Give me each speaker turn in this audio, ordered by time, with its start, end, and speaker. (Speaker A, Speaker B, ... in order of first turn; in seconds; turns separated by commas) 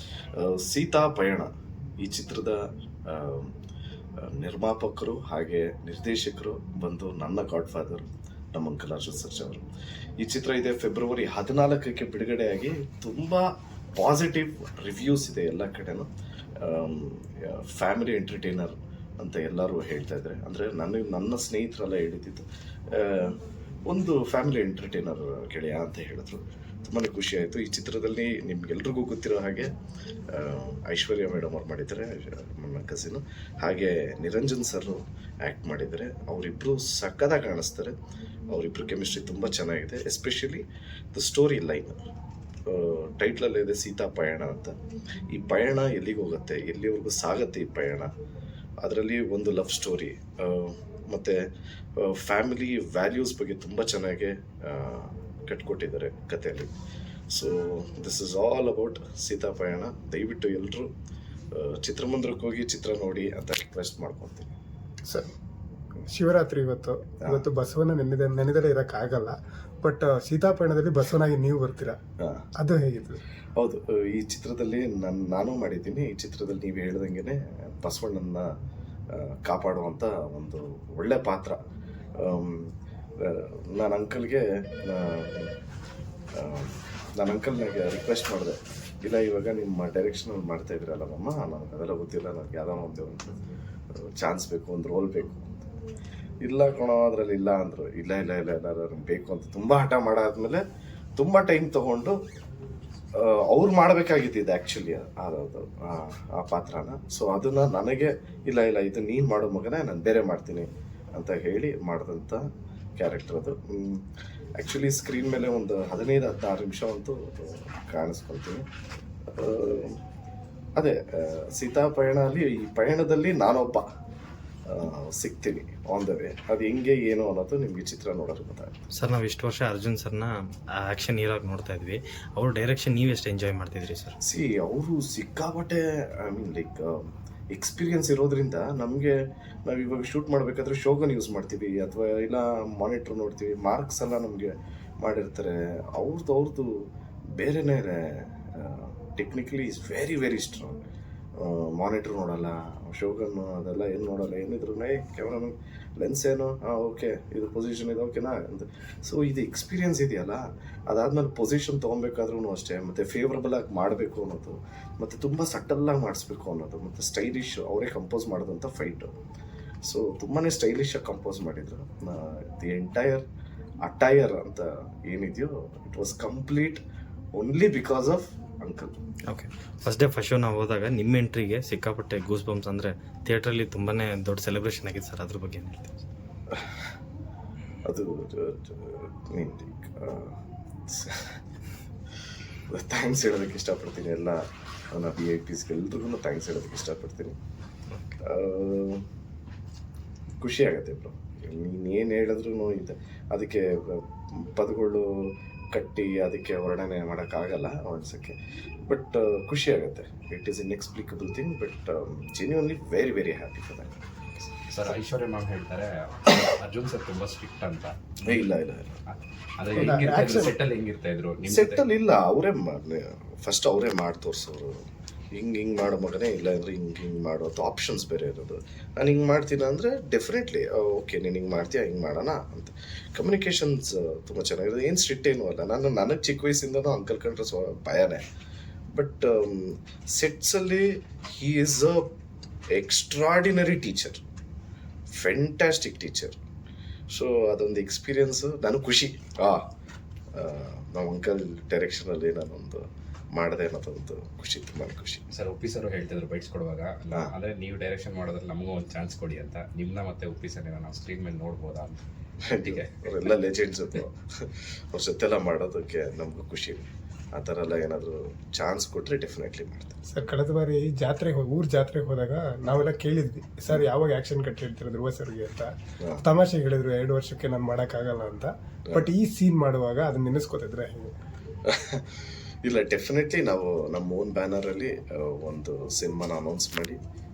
Speaker A: 0.3-3.5, Speaker A: 4.2-9.6, Speaker A: 10.2-16.1, Speaker A: 16.6-29.7, Speaker A: 30.3-38.0, Speaker A: 38.5-42.0, Speaker A: 42.7-44.8, Speaker A: 45.3-48.1, Speaker A: 48.8-56.7, Speaker A: 57.3-60.9, Speaker A: 61.5-64.5, Speaker B: 66.1-72.0, Speaker A: 72.2-72.5, Speaker B: 72.6-73.2, Speaker A: 73.6-78.5, Speaker A: 79.1-81.6, Speaker A: 82.2-85.5, Speaker A: 86.3-93.4, Speaker A: 94.0-95.5, Speaker A: 96.4-100.6, Speaker A: 101.2-102.2, Speaker A: 103.2-112.5, Speaker A: 113.0-118.7, Speaker A: 119.3-120.0, Speaker A: 120.8-123.9, Speaker A: 124.7-128.8, Speaker C: 128.9-134.2, Speaker A: 134.2-150.8, Speaker A: 151.4-169.1, Speaker A: 169.8-173.2, Speaker A: 173.8-176.8, Speaker A: 177.3-178.9, Speaker C: 179.3-186.0, Speaker A: 187.8-191.4, Speaker A: 192.6-197.4, Speaker A: 198.2-199.0, Speaker A: 200.4-213.9, Speaker D: 214.7-218.5, Speaker A: 218.2-219.0, Speaker D: 219.1-221.8, Speaker A: 219.8-220.4, Speaker B: 219.8-220.5, Speaker A: 221.4-224.8, Speaker A: 225.3-238.2, Speaker A: 238.9-242.1, Speaker A: 242.7-244.2, Speaker A: 245.1-246.4, Speaker A: 247.1-249.7, Speaker A: 250.3-255.2, Speaker D: 255.3-262.0, Speaker A: 262.5-270.0, Speaker D: 262.6-263.3, Speaker B: 270.1-281.1, Speaker A: 281.7-287.0